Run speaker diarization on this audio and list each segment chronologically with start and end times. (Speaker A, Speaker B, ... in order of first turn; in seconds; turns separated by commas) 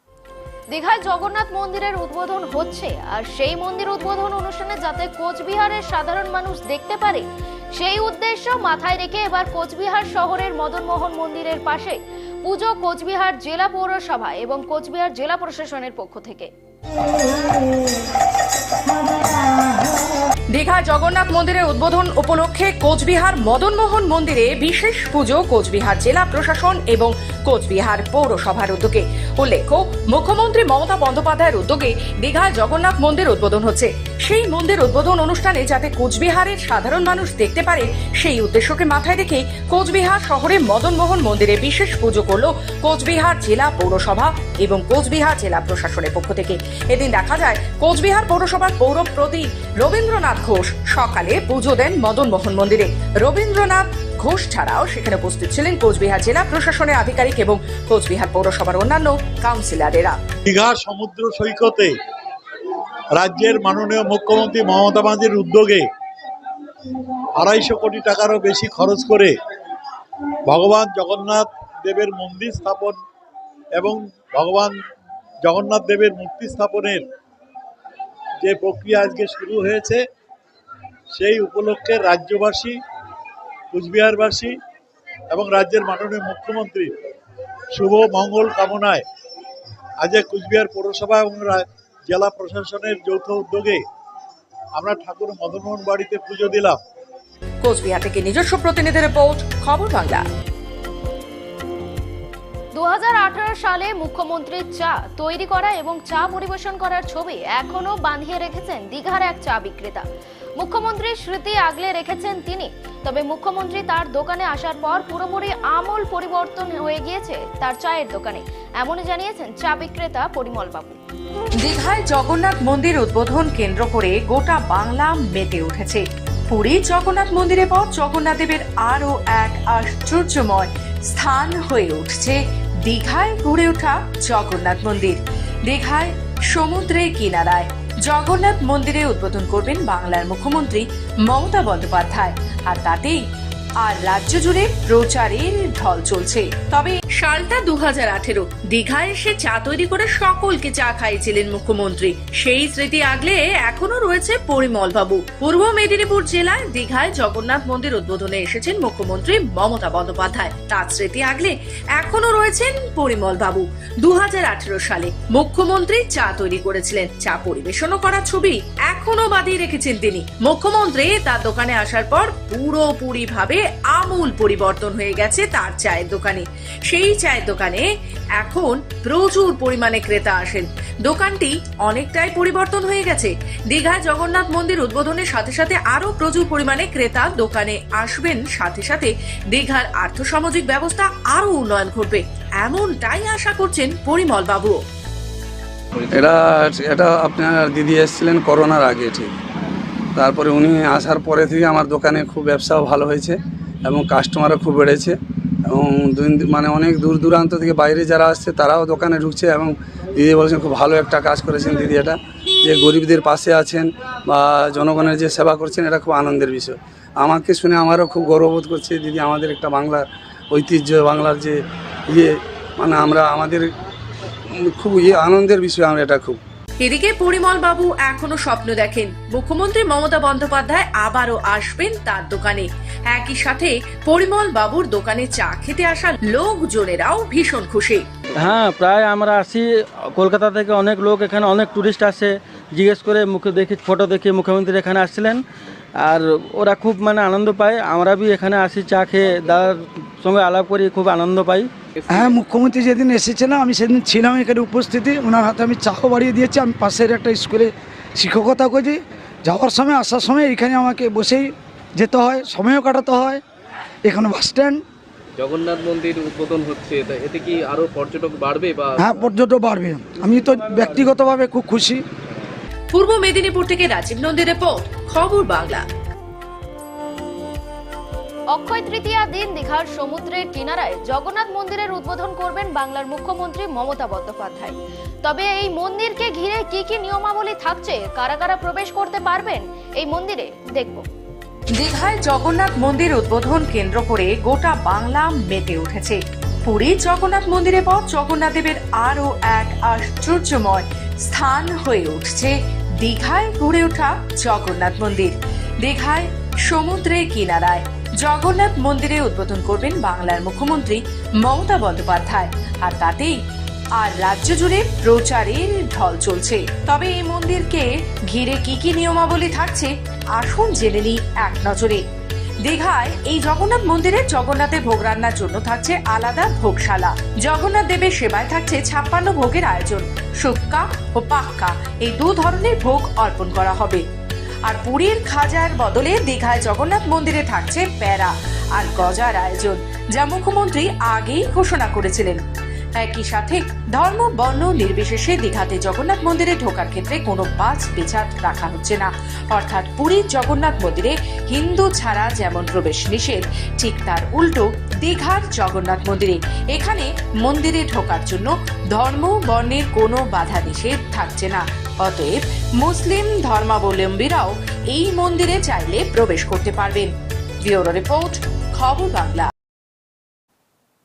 Speaker A: 0.7-16.5, Speaker B: 20.5-60.2, Speaker C: 60.5-61.9, Speaker C: 63.2-65.8, Speaker C: 67.5-69.3, Speaker C: 70.8-73.0, Speaker C: 73.8-74.7, Speaker C: 75.5-77.0, Speaker C: 78.5-80.0, Speaker C: 81.2-82.7, Speaker C: 83.7-84.5, Speaker C: 85.4-86.9, Speaker C: 87.8-89.0, Speaker C: 90.1-93.8, Speaker C: 94.8-96.7, Speaker B: 97.6-100.2, Speaker A: 102.8-110.1, Speaker A: 110.6-121.0, Speaker B: 121.6-143.2, Speaker B: 143.8-177.9, Speaker B: 178.4-194.8, Speaker D: 196.1-199.3, Speaker D: 200.2-221.6, Speaker D: 222.1-223.7, Speaker D: 224.6-226.4, Speaker B: 226.8-238.1, Speaker E: 238.3-245.4, Speaker E: 246.0-251.7, Speaker F: 252.1-263.4, Speaker F: 264.1-264.8, Speaker G: 265.4-269.0, Speaker F: 269.0-272.1, Speaker B: 272.9-275.9, Speaker A: 278.5-291.1, Speaker B: 291.8-313.4, Speaker B: 314.0-322.0, Speaker B: 322.6-334.0, Speaker B: 334.6-342.4, Speaker B: 343.0-367.1, Speaker B: 367.6-369.5